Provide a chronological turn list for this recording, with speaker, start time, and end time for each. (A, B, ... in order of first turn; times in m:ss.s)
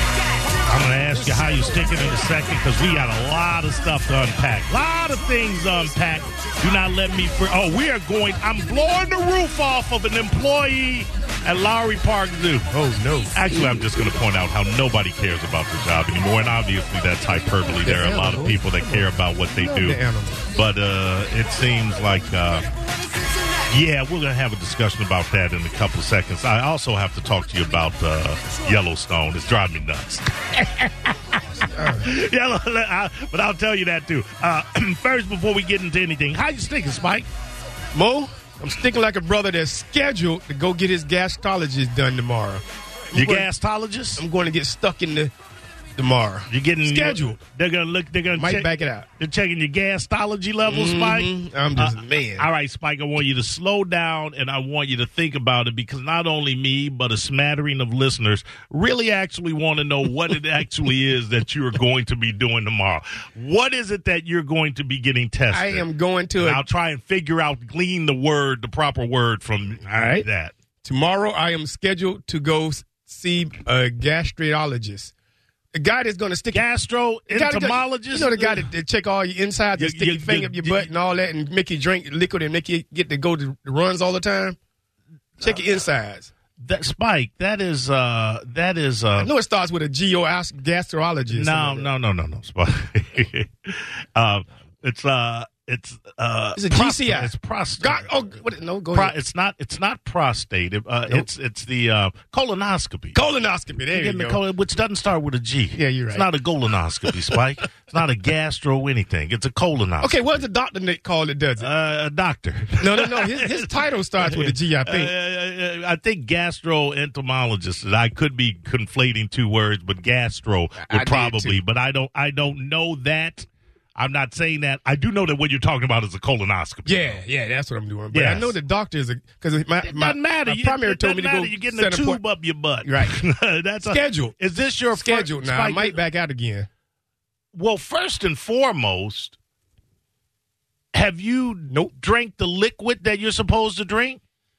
0:00.7-0:12.7 A
0:12.7-0:13.5 B
0:13.3-0:20.0 A
0:17.8-0:20.4 B
0:20.5-0:22.6 A
0:23.7-0:37.3 A
0:31.7-0:32.1 B
0:37.9-0:43.5 B
0:43.1-0:44.2 A
0:44.2-0:45.3 B
0:46.0-0:47.4 B
0:46.5-1:05.9 A
0:48.3-0:49.1 B
0:50.7-0:52.5 B
1:05.5-1:06.6 B
1:06.4-1:10.5 A
1:09.8-1:10.3 B
1:10.8-1:15.1 B
1:15.7-1:16.6 B
1:16.5-1:18.7 A
1:17.3-1:24.6 B
1:19.8-1:20.9 A
1:25.4-1:26.3 B
1:26.6-1:29.3 A
1:29.2-1:31.9 B
1:31.3-1:38.1 A
1:36.6-1:39.1 B
1:38.9-1:43.2 A
1:43.1-1:44.4 B
1:43.9-1:50.4 A
1:45.7-1:46.3 B
1:50.0-1:51.7 B
1:51.6-2:07.2 A
1:52.8-1:55.1 B
2:00.8-2:01.6 B
2:06.8-2:12.2 B
2:08.1-2:08.6 A
2:09.8-2:16.0 A
2:12.8-2:13.2 B
2:13.8-2:14.4 B
2:14.9-2:16.7 B
2:17.5-2:19.4 A
2:20.9-2:24.2 A